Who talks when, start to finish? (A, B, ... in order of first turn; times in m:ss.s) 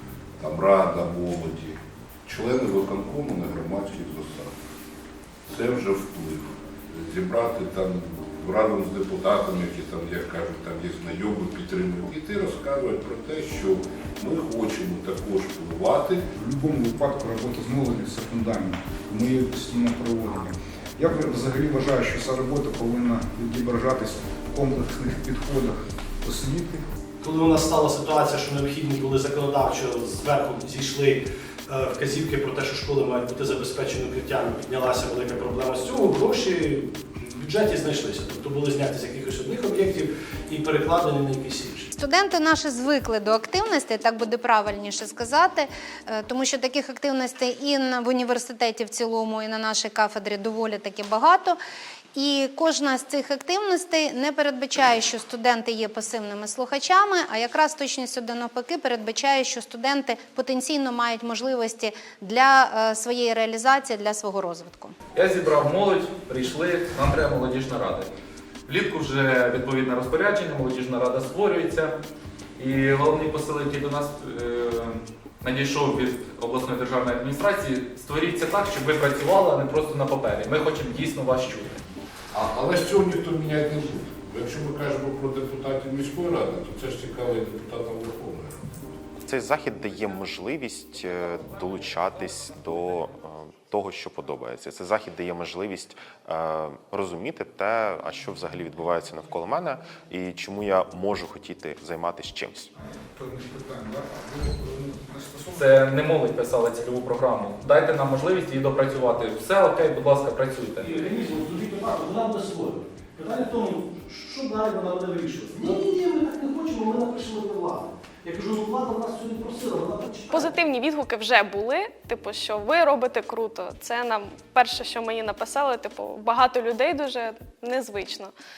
0:00.4-0:04.5 A
0:05.5-0:16.2 A
0:16.4-0:26.8 B
0:27.2-0:41.9 C
0:42.0-0:51.6 D
0:52.2-1:04.9 D
1:05.1-1:08.1 E
1:08.7-1:11.9 E
1:12.6-1:21.8 E
1:22.3-1:28.6 A
1:29.2-1:42.7 F
1:42.8-1:45.8 B
1:45.5-1:50.9 E
1:50.8-2:00.5 C
2:00.3-2:08.3 G